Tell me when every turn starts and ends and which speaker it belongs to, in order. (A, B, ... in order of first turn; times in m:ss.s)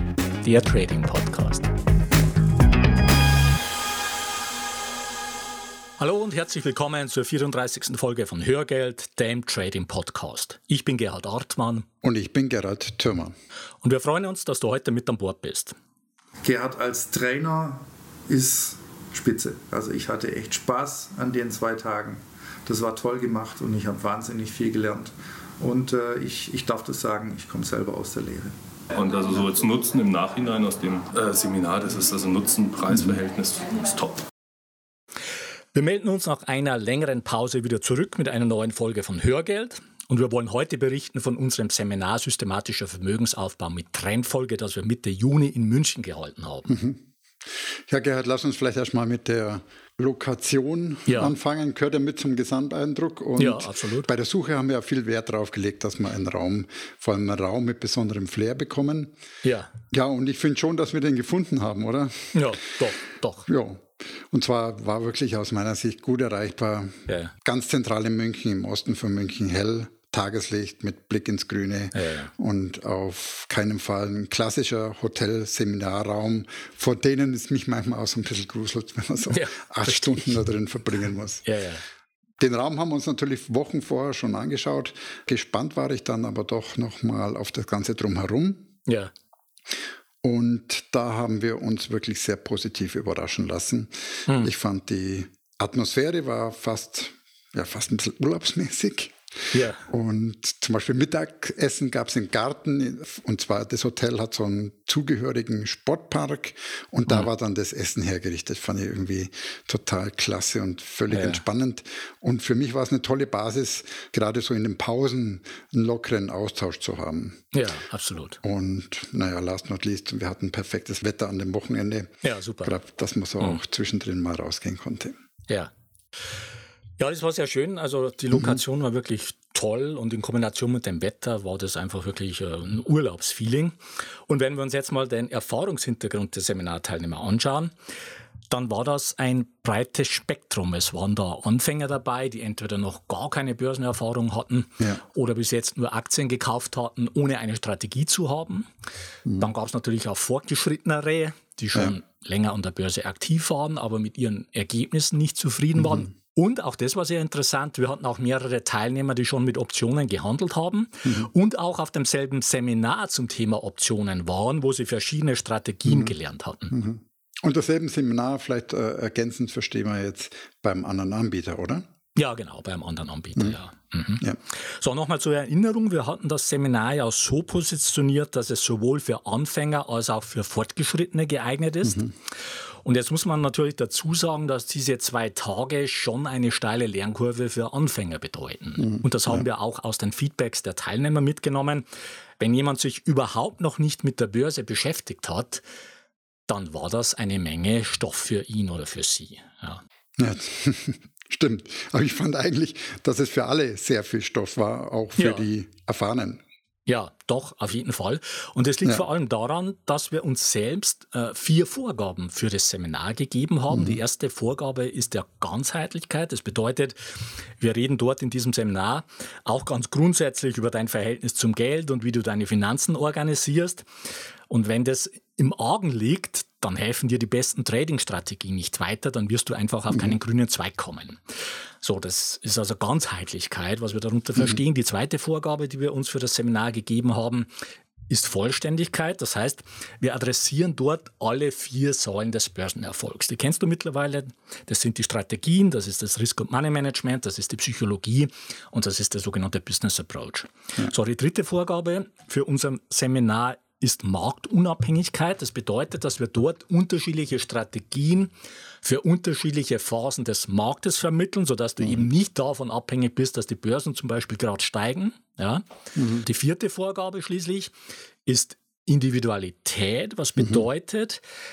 0:00.4-0:01.7 A
0:06.0-0:11.9 A
0:12.0-0:13.4 B
0:13.8-0:15.8 A
0:16.4-0:28.6 C
0:28.9-0:34.2 D
0:35.7-0:46.8 A
0:46.7-0:59.1 B
0:51.1-0:51.3 A
0:53.4-0:54.1 A
0:59.4-0:59.7 A
0:59.9-1:02.6 B
1:02.3-1:03.5 A
1:03.4-1:21.5 B
1:07.1-1:07.3 A
1:11.9-1:12.3 A
1:19.3-1:20.4 A
1:21.4-1:21.8 A
1:22.4-1:28.7 B
1:30.2-1:57.4 B
1:39.5-1:39.8 A
1:51.1-1:51.4 A
1:57.5-1:58.4 A
1:58.4-2:05.2 B
2:02.2-2:02.8 A
2:07.0-2:17.7 A
2:18.5-2:28.7 A
2:29.4-2:46.8 A
2:35.8-2:36.1 B
2:45.9-2:46.1 B
2:46.7-2:51.9 B
2:52.2-3:02.1 A
3:01.8-3:02.1 B
3:02.8-3:11.9 A
3:08.8-3:09.4 B
3:12.4-3:15.6 A
3:16.5-3:19.8 A
3:20.2-3:26.4 B
3:25.2-3:25.4 A
3:26.9-3:37.0 A
3:33.7-3:34.0 B
3:37.6-3:43.9 A
3:44.5-3:51.2 A
3:51.8-3:57.5 A
3:58.1-4:18.3 A
4:18.8-4:25.6 A
4:21.8-4:22.1 B
4:26.0-4:26.2 B
4:26.2-4:27.7 A
4:28.3-4:31.2 A
4:30.4-4:30.6 B